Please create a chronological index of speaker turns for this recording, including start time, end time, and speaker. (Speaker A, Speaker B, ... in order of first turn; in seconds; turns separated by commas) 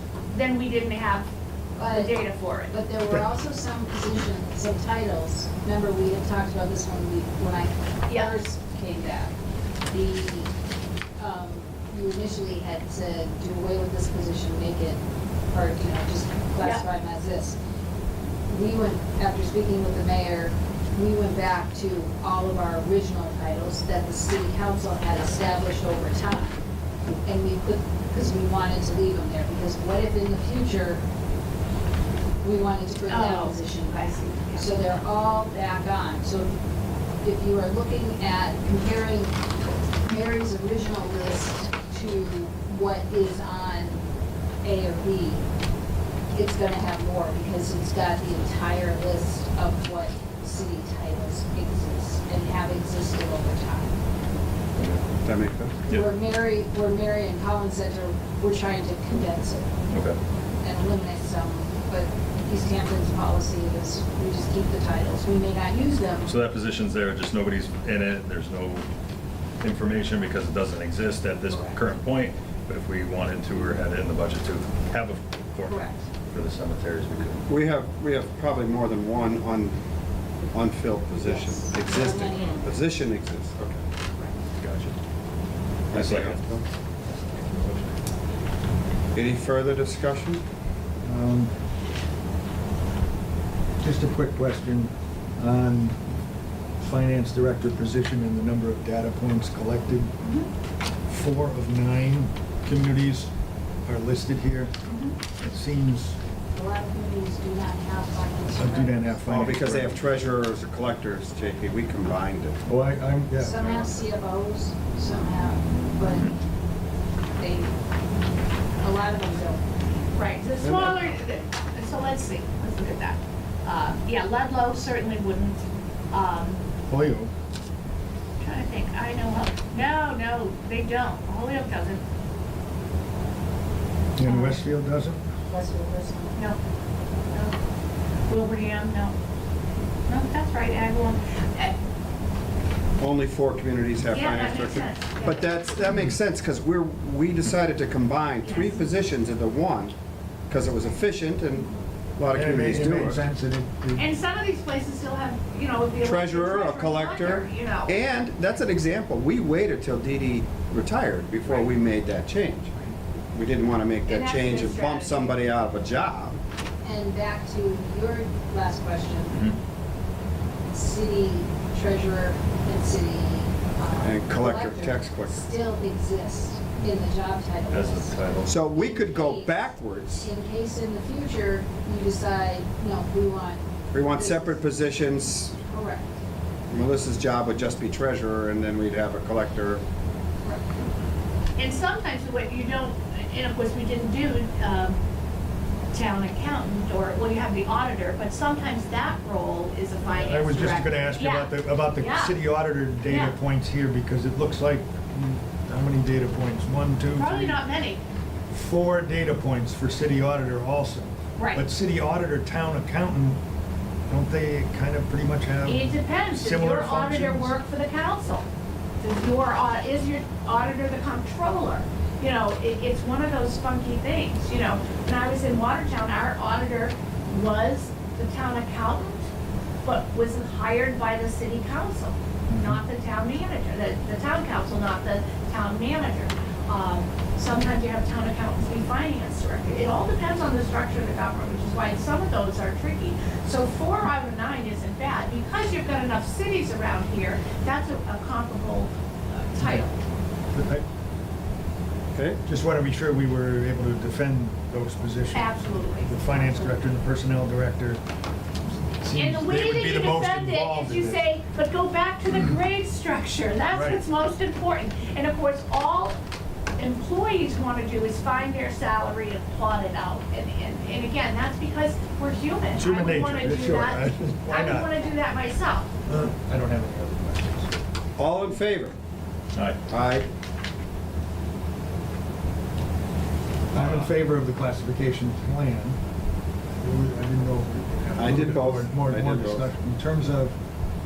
Speaker A: 0.3-1.3, Speaker B: 1.8-9.3, Speaker A: 1.8-2.8, Speaker A: 8.1-8.4, Speaker B: 9.9-10.5, Speaker B: 11.2-17.6, Speaker A: 16.6-16.9, Speaker B: 18.5-26.6, Speaker B: 27.2-31.0, Speaker B: 32.4-36.5, Speaker A: 33.1-34.7, Speaker B: 37.2-39.4, Speaker B: 40.0-44.0, Speaker B: 44.6-45.4, Speaker B: 46.3-54.0, Speaker C: 54.8-55.1, Speaker D: 55.1-55.9, Speaker B: 55.9-59.7, Speaker C: 59.9-60.2, Speaker B: 60.6-66.3, Speaker C: 66.2-68.9, Speaker C: 69.6-77.5, Speaker B: 75.7-76.0, Speaker D: 77.5-79.8, Speaker D: 80.5-83.8, Speaker B: 81.2-82.8, Speaker C: 84.6-84.9, Speaker C: 85.9-86.4, Speaker D: 85.9-86.6, Speaker C: 87.1-88.0, Speaker D: 89.1-90.4, Speaker E: 91.0-91.5, Speaker E: 93.8-96.0, Speaker E: 96.8-100.1, Speaker A: 100.2-100.5, Speaker E: 101.1-103.3, Speaker E: 103.8-104.7, Speaker A: 104.8-105.2, Speaker E: 105.4-106.2, Speaker B: 106.5-109.3, Speaker E: 108.5-109.9, Speaker D: 109.2-112.6, Speaker E: 112.7-113.6, Speaker B: 113.4-116.3, Speaker B: 117.4-117.7, Speaker B: 118.8-119.6, Speaker A: 120.2-126.6, Speaker D: 120.6-121.1, Speaker E: 126.9-127.3, Speaker A: 128.4-132.0, Speaker E: 134.2-135.3, Speaker A: 134.2-134.6, Speaker B: 135.5-136.4, Speaker A: 136.3-136.6, Speaker A: 137.3-137.6, Speaker A: 138.3-139.1, Speaker A: 140.1-141.7, Speaker D: 143.0-149.9, Speaker A: 144.1-145.8, Speaker A: 148.4-148.8, Speaker D: 150.5-153.2, Speaker E: 152.3-154.1, Speaker A: 153.9-158.0, Speaker D: 156.0-166.4, Speaker A: 164.1-165.3, Speaker B: 166.8-169.5, Speaker C: 169.3-169.6, Speaker B: 170.7-184.6, Speaker D: 173.9-175.5, Speaker C: 177.7-178.6, Speaker D: 178.4-180.3, Speaker D: 183.9-185.6, Speaker B: 185.6-186.2, Speaker D: 186.7-189.8, Speaker B: 190.4-190.8, Speaker A: 191.6-195.0, Speaker A: 195.9-202.3, Speaker E: 200.1-207.6, Speaker A: 203.0-203.3, Speaker A: 207.1-208.0, Speaker E: 208.5-213.4, Speaker A: 211.4-211.6, Speaker E: 214.1-217.6, Speaker A: 215.6-218.4, Speaker A: 219.0-229.3, Speaker A: 229.8-250.0, Speaker E: 232.5-232.8, Speaker E: 249.6-249.9, Speaker E: 250.5-250.8, Speaker D: 252.1-252.4, Speaker E: 252.4-258.0, Speaker A: 255.3-256.7, Speaker E: 259.0-261.3, Speaker A: 259.1-266.2, Speaker E: 263.7-264.0, Speaker A: 266.8-275.9, Speaker E: 272.7-274.9, Speaker E: 276.1-277.8, Speaker D: 278.2-279.0, Speaker C: 279.5-279.8, Speaker D: 279.9-280.3, Speaker E: 283.7-286.0, Speaker C: 283.7-284.1, Speaker E: 286.7-290.6, Speaker D: 288.1-289.7